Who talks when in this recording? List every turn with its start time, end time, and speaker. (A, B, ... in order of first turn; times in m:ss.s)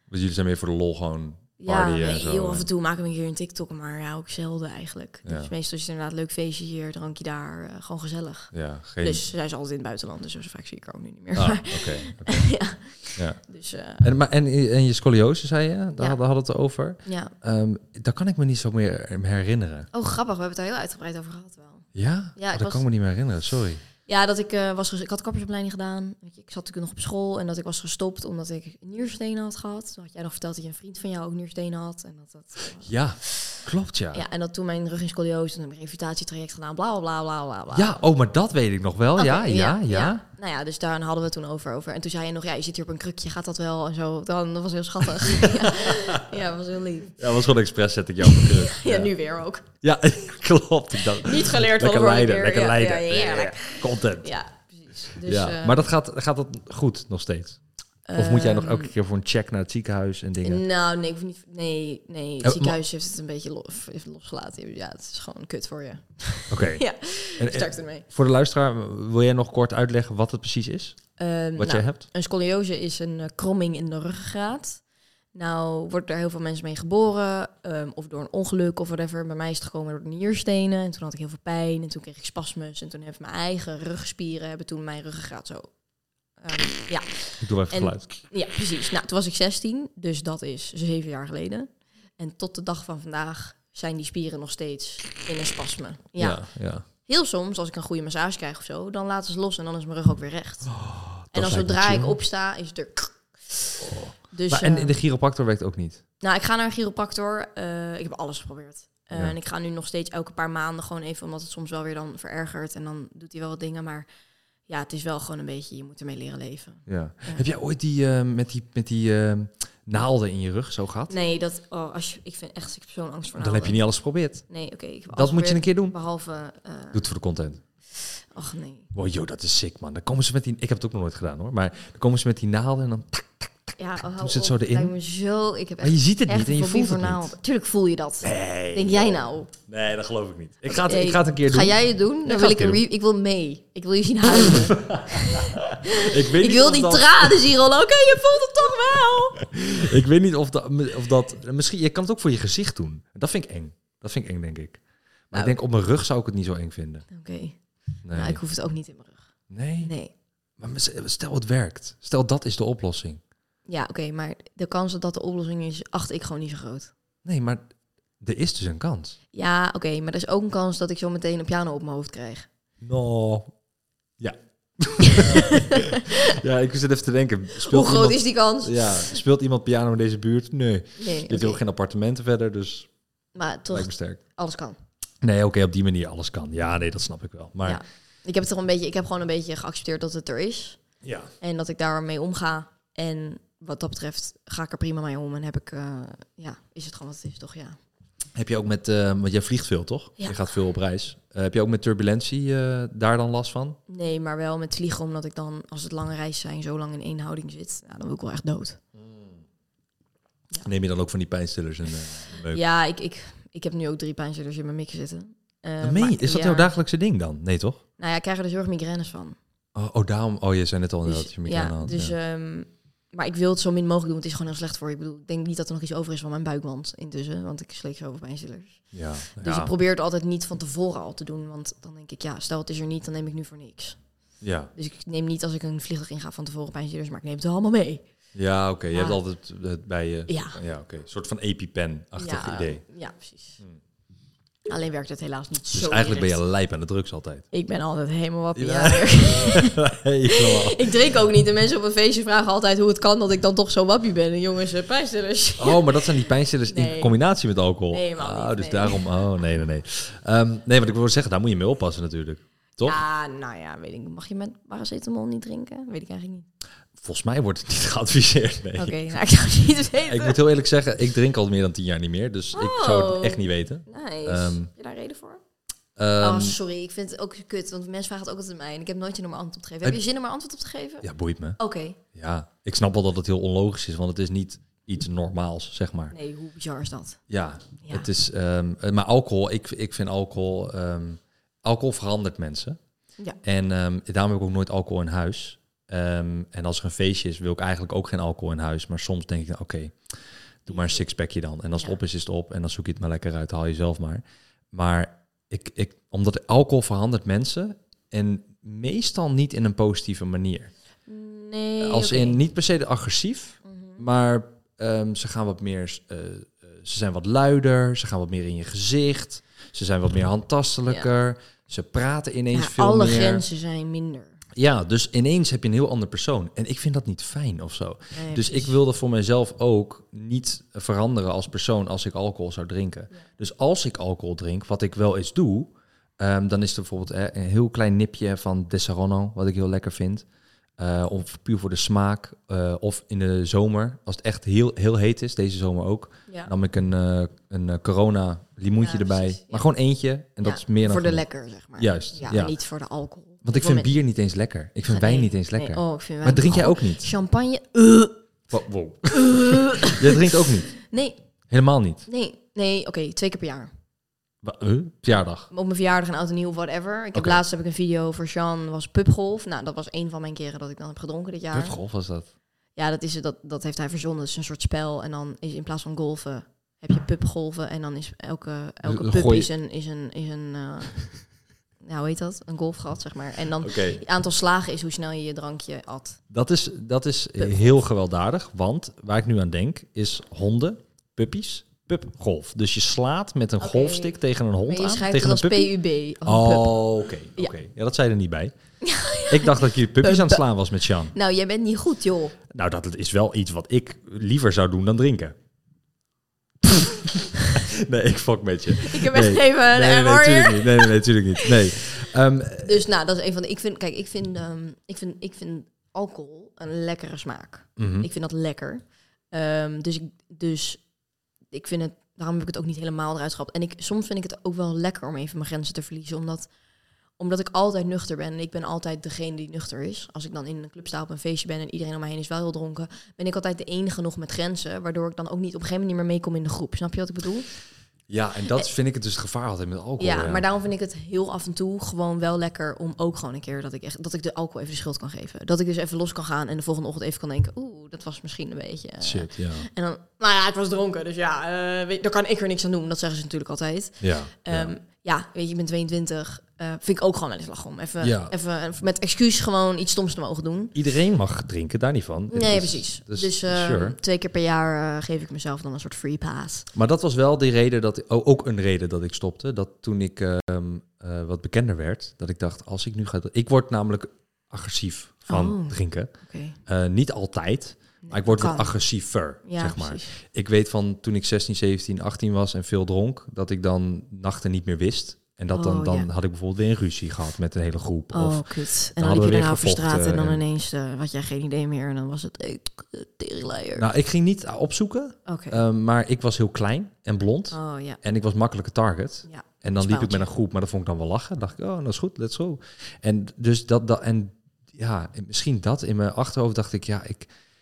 0:00.1-0:02.7 A
0:01.6-0:14.1 B
0:05.2-0:05.5 A
0:08.5-0:09.2 A
0:11.4-0:12.6 A
0:13.1-0:13.4 A
0:14.0-0:19.9 A
0:17.0-0:17.4 B
0:19.9-0:22.8 B
0:22.0-0:23.8 A
0:24.1-0:33.4 B
0:32.8-0:34.2 A
0:34.1-0:38.0 B
0:37.7-0:40.2 A
0:39.2-0:47.3 B
0:45.6-0:46.3 A
0:47.2-0:49.1 A
0:48.3-0:49.7 B
0:49.8-0:54.3 A
0:51.2-0:55.8 B
0:55.2-0:57.6 A
0:58.1-0:58.9 B
0:58.2-1:00.6 A
1:00.4-1:08.0 B
1:02.4-1:02.8 A
1:06.5-1:12.0 A
1:11.2-1:14.8 B
1:15.3-1:25.8 B
1:26.4-1:43.7 B
1:27.4-1:28.2 A
1:36.2-1:36.9 A
1:40.7-1:42.2 A
1:43.8-1:46.0 A
1:44.3-1:44.9 B
1:46.2-1:54.1 B
1:54.7-1:57.4 B
1:56.9-2:01.2 A
2:01.1-2:03.8 B
2:03.4-2:04.5 A
2:04.4-2:07.0 B
2:05.1-2:06.0 A
2:06.9-2:07.6 A
2:08.1-2:08.9 B
2:08.9-2:14.9 A
2:13.8-2:19.5 B
2:15.8-2:17.3 A
2:18.2-2:22.8 A
2:20.7-2:29.5 B
2:24.4-2:27.4 A
2:29.4-2:34.8 A
2:35.3-2:37.1 A
2:37.1-2:37.6 B
2:38.0-2:38.4 A
2:38.1-2:40.1 B
2:39.5-2:39.9 A
2:40.6-2:43.2 A
2:43.7-2:46.9 B
2:47.2-2:47.7 A
2:48.2-2:49.2 A
2:49.3-2:52.5 B
2:52.8-2:53.5 A
2:54.2-3:02.9 A
2:55.1-2:56.0 B
2:57.6-2:59.2 B
3:01.0-3:01.6 B
3:03.3-3:04.8 B
3:03.7-3:04.2 A
3:05.2-3:07.8 A
3:07.6-3:10.8 B
3:11.0-3:11.3 A
3:11.4-3:17.8 B
3:18.4-3:23.8 A
3:23.9-3:28.8 B
3:29.0-3:29.4 A
3:30.6-3:32.6 A
3:32.5-3:36.7 B
3:35.8-3:37.8 A
3:38.0-3:39.4 B
3:39.8-3:42.1 A
3:41.1-3:54.0 B
3:48.9-3:49.7 A
3:54.4-3:54.7 A
3:54.8-3:58.0 B
3:58.4-4:02.8 A
3:58.9-3:59.2 B
4:00.3-4:00.6 B
4:02.2-4:03.6 B
4:04.7-4:06.4 B
4:05.7-4:07.4 A
4:07.5-4:09.8 B
4:08.6-4:10.9 A
4:10.3-4:16.1 B
4:15.6-4:23.0 A
4:16.7-4:17.1 B
4:17.9-4:19.1 B
4:22.8-4:26.5 B
4:27.0-4:29.0 A
4:28.8-4:30.4 B
4:30.0-4:34.7 A
4:32.5-4:35.4 B
4:36.0-4:36.6 A
4:36.2-4:41.1 B
4:41.0-4:41.6 A
4:41.6-4:42.0 B
4:42.1-4:46.2 A
4:46.1-4:47.2 B
4:47.3-4:52.8 A
4:47.8-4:48.1 B
4:53.4-5:10.7 A
5:11.1-5:12.4 B
5:11.8-5:23.4 A
5:13.6-5:14.0 B
5:22.5-5:24.4 B
5:24.6-5:40.3 A
5:28.1-5:28.8 B
5:40.8-5:51.2 A
5:46.3-5:46.5 B
5:48.8-5:49.7 B
5:50.4-5:54.0 B
5:51.8-5:52.6 A
5:53.4-5:57.1 A
5:54.9-5:58.2 B
5:58.5-6:00.8 A
5:59.1-6:01.2 B
6:01.5-6:02.0 A
6:02.1-6:03.7 B
6:04.4-6:05.5 A
6:05.5-6:11.8 B
6:07.1-6:07.4 A
6:11.5-6:12.3 A
6:12.8-6:26.2 B
6:18.8-6:19.5 A
6:23.6-6:24.0 A
6:26.3-6:35.7 A
6:27.4-6:27.8 B
6:33.6-6:34.1 B
6:34.6-6:36.9 B
6:36.2-6:38.5 A
6:38.8-6:40.4 B
6:39.3-6:41.1 A
6:41.1-6:42.4 B
6:42.5-6:45.4 A
6:46.6-6:52.7 A
6:48.8-6:51.8 B
6:52.6-7:00.8 B
6:57.8-6:58.1 A
7:01.5-7:06.5 B
7:07.2-7:17.5 B
7:18.1-7:20.4 A
7:20.0-7:40.8 B
7:29.0-7:29.7 A
7:34.0-7:34.7 A
7:38.0-7:38.3 A
7:40.8-7:44.0 A
7:42.3-7:46.7 B
7:46.7-7:56.1 A
7:55.3-7:56.6 B
7:56.7-8:10.4 A
7:58.0-8:00.1 B
8:05.5-8:06.1 B
8:08.1-8:13.9 B
8:13.8-8:27.3 A
8:15.3-8:15.6 B
8:17.5-8:18.0 B
8:19.3-8:20.3 B